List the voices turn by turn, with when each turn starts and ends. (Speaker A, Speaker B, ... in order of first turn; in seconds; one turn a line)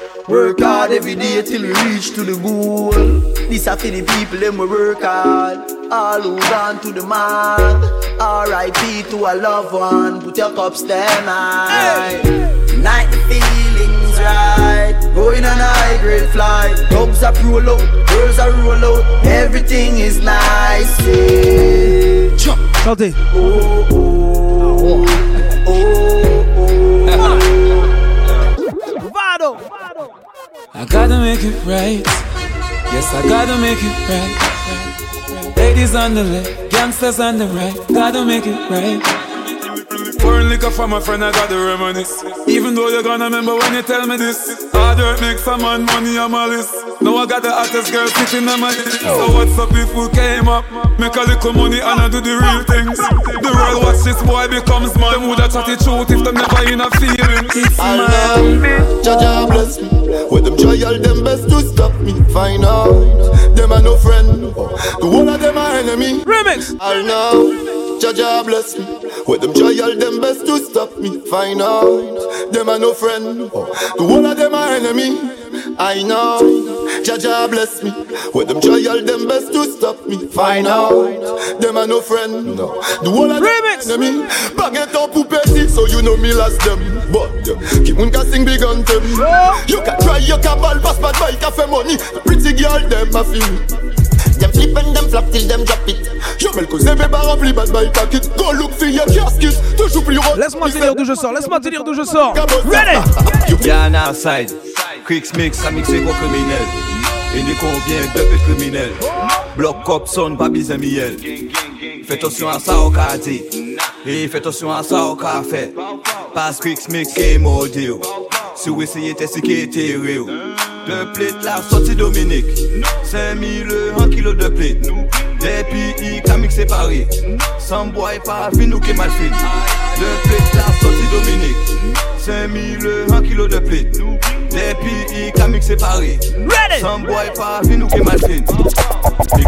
Speaker A: 0.3-21.7
Speaker B: 11.7-12.1
Speaker B: 22.8-23.2
Speaker C: 27.1-27.4
Speaker B: 29.0-29.7
Speaker C: 30.7-32.2
Speaker C: 32.9-39.1
Speaker C: 39.6-58.7
Speaker D: 57.8-66.2
Speaker B: 66.3-66.7
Speaker D: 66.8-93.6
Speaker B: 83.4-84.0
Speaker B: 89.2-89.6
Speaker D: 94.4-101.0
Speaker B: 100.3-103.1
Speaker D: 102.3-103.7
Speaker E: 103.6-106.8
Speaker E: 107.3-109.0
Speaker E: 109.5-111.3
Speaker E: 112.0-138.5
Speaker B: 136.4-136.9